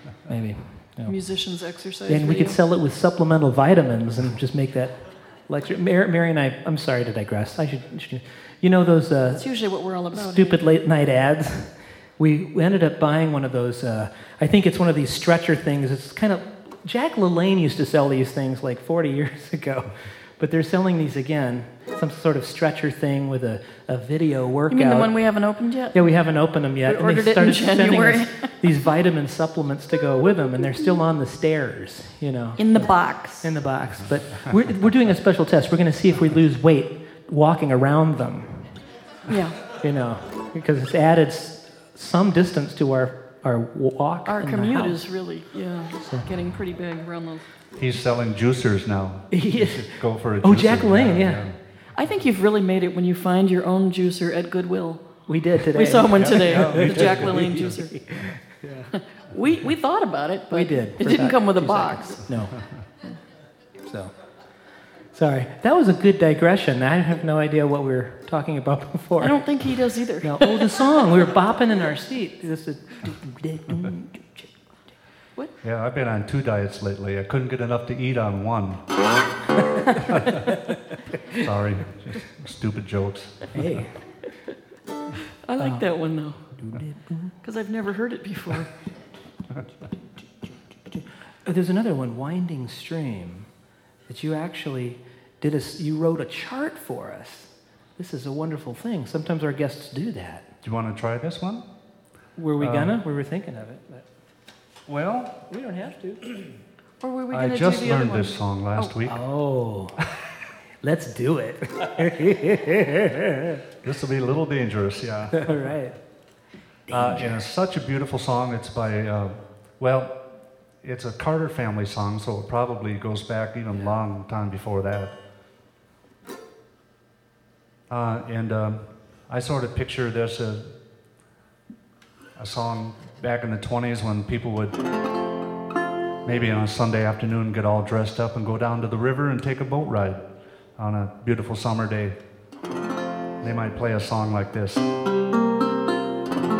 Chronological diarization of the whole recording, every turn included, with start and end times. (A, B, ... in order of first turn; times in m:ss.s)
0:00.3-0:01.2 A
0:01.0-0:02.6 B
0:02.1-0:09.5 A
0:09.3-0:10.6 B
0:10.1-0:25.2 A
0:24.7-0:26.0 B
0:25.9-0:38.8 A
0:26.9-0:28.5 B
0:32.6-0:33.5 B
0:39.3-0:39.6 B
0:39.7-0:45.0 A
0:44.3-0:47.4 B
0:46.0-0:46.3 A
0:47.8-0:51.6 C
0:49.3-0:51.5 A
0:52.0-0:58.3 B
0:55.3-0:58.9 A
0:56.2-0:57.8 C
0:58.9-1:02.3 B
1:00.5-1:02.6 A
1:03.8-1:04.1 A
1:05.1-1:09.4 A
1:09.2-1:11.0 B
1:10.2-1:14.6 A
1:15.6-1:18.8 C
1:19.8-1:20.2 A
1:20.0-1:20.5 C
1:21.3-1:23.8 C
1:23.5-1:24.0 A
1:25.4-1:26.5 B
1:25.6-1:25.9 A
1:26.5-1:27.3 A
1:27.4-1:28.8 B
1:31.4-1:33.5 A
1:34.1-1:40.5 A
1:40.6-1:41.7 C
1:42.4-1:44.0 A
1:42.6-1:43.0 C
1:44.9-1:45.4 C
1:45.5-1:46.2 A
1:47.0-1:49.0 B
1:47.3-1:49.2 C
1:49.0-1:50.1 A
1:50.8-1:53.6 A
1:53.8-1:55.7 C
1:55.3-1:56.0 A
1:56.9-2:00.2 C
1:56.9-1:57.3 A
2:00.8-2:05.1 C
2:07.9-2:10.8 C
2:12.4-2:14.8 C
2:16.2-2:20.2 C
2:20.8-2:22.2 C
2:23.4-2:24.9 C